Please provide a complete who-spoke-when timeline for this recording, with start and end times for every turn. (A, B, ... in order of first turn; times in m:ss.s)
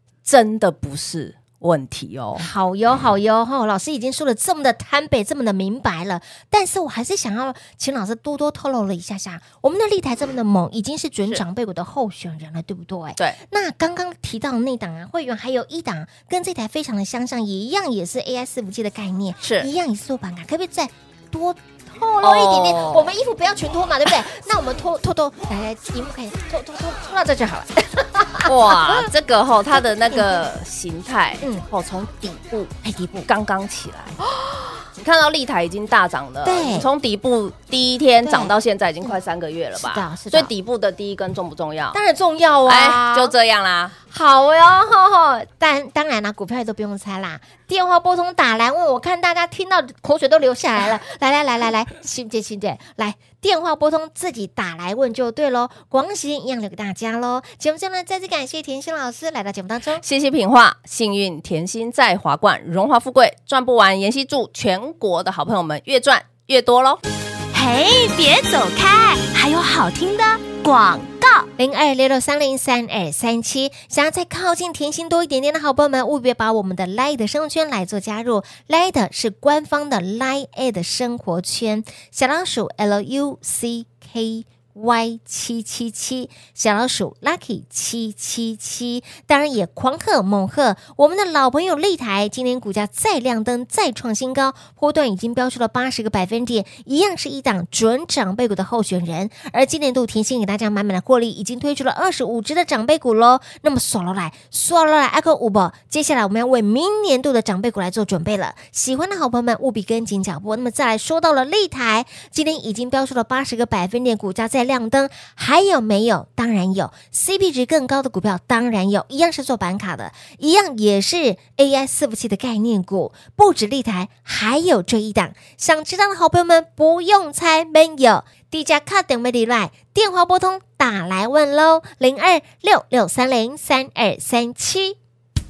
0:00.2-0:02.5 A
0:02.4-0:29.1 B
0:19.4-0:19.7 A
0:22.2-0:23.1 A
0:28.5-0:32.7 A
0:30.1-0:30.4 B
0:31.4-0:31.7 B
0:32.8-0:33.3 B
0:33.3-0:34.2 A
0:34.4-0:34.7 B
0:35.0-0:42.0 A
0:36.4-0:36.9 B
0:38.2-0:39.2 B
0:39.8-0:40.5 B
0:41.9-0:43.3 B
0:42.7-0:43.9 A
0:44.1-1:00.0 B
1:00.0-1:07.0 A
1:07.5-1:11.5 C
1:11.6-2:15.0 B